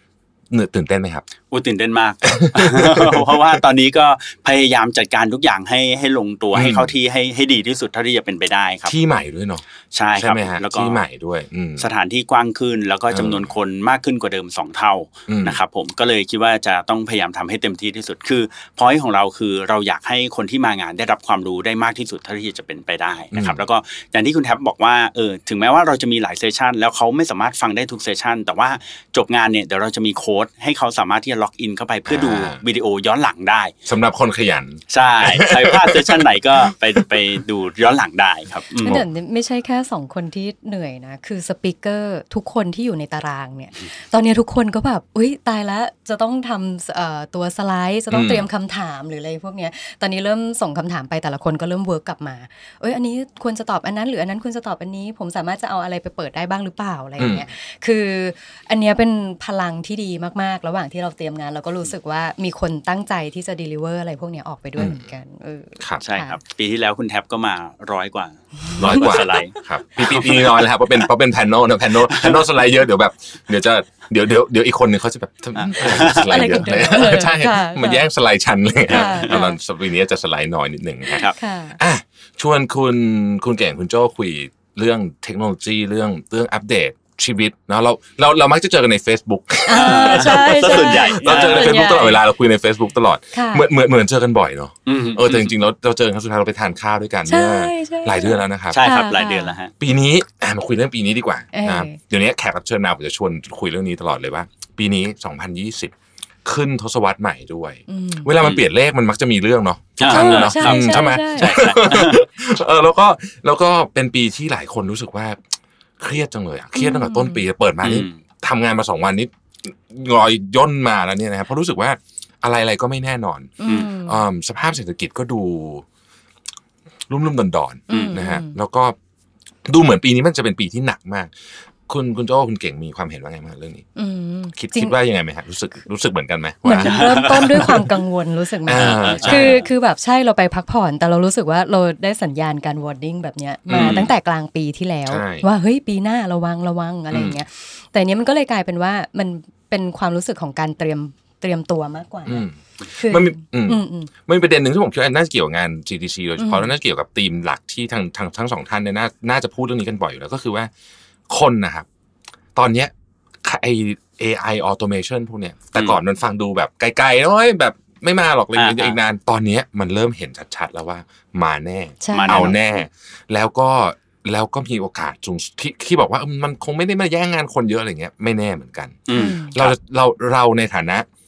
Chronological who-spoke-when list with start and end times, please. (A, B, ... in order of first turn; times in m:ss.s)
0:00.5-0:01.3 A
0:01.5-0:09.0 B
0:02.2-0:03.6 A
0:06.5-0:06.9 A
0:08.9-0:09.6 A
0:09.9-0:11.0 B
0:10.2-0:11.9 A
0:11.8-0:33.7 B
0:13.1-0:13.5 A
0:15.3-0:15.6 A
0:23.3-0:23.6 A
0:32.1-0:32.6 A
0:33.9-0:37.4 A
0:34.9-0:39.0 B
0:38.8-1:06.4 C
0:48.1-0:48.5 A
0:57.2-0:57.5 A
1:04.8-1:05.1 A
1:06.0-1:10.8 B
1:08.7-1:09.6 C
1:08.8-1:38.9 A
1:12.0-1:12.5 B
1:15.6-1:16.5 B
1:16.1-1:18.0 C
1:18.9-1:19.6 C
1:21.2-1:21.8 C
1:29.7-1:32.2 C
1:29.7-1:31.9 B
1:33.3-1:33.7 C
1:34.9-1:35.5 B
1:37.3-1:39.6 C
1:38.7-1:39.7 B
1:39.8-1:45.9 A
1:41.5-1:42.0 C
1:46.4-1:55.4 A
1:47.9-1:48.3 C
1:50.0-1:52.2 B
1:50.1-1:51.7 C
1:56.0-2:05.8 A
1:56.8-1:57.4 C
1:57.8-1:58.2 B
2:03.6-2:04.2 C
2:07.1-2:09.0 A
2:07.9-2:08.6 C
2:07.9-2:08.2 B
2:09.7-2:11.3 A
2:11.9-2:13.8 A
2:14.0-2:15.0 C
2:14.6-2:17.9 A
2:16.6-2:34.1 C
2:16.8-2:17.8 B
2:18.7-2:19.6 A
2:18.7-2:19.6 B
2:23.7-2:24.1 A
2:23.7-2:24.1 B
2:25.1-2:25.5 A
2:27.1-2:27.4 A
2:32.3-2:40.7 A
2:36.4-2:36.7 C
2:41.3-2:41.9 A
2:42.6-2:42.9 A
2:43.4-3:01.1 A
2:48.6-2:49.0 B
2:52.0-2:52.8 C
2:52.1-2:52.6 B
2:59.1-2:59.8 B
2:59.1-2:59.6 C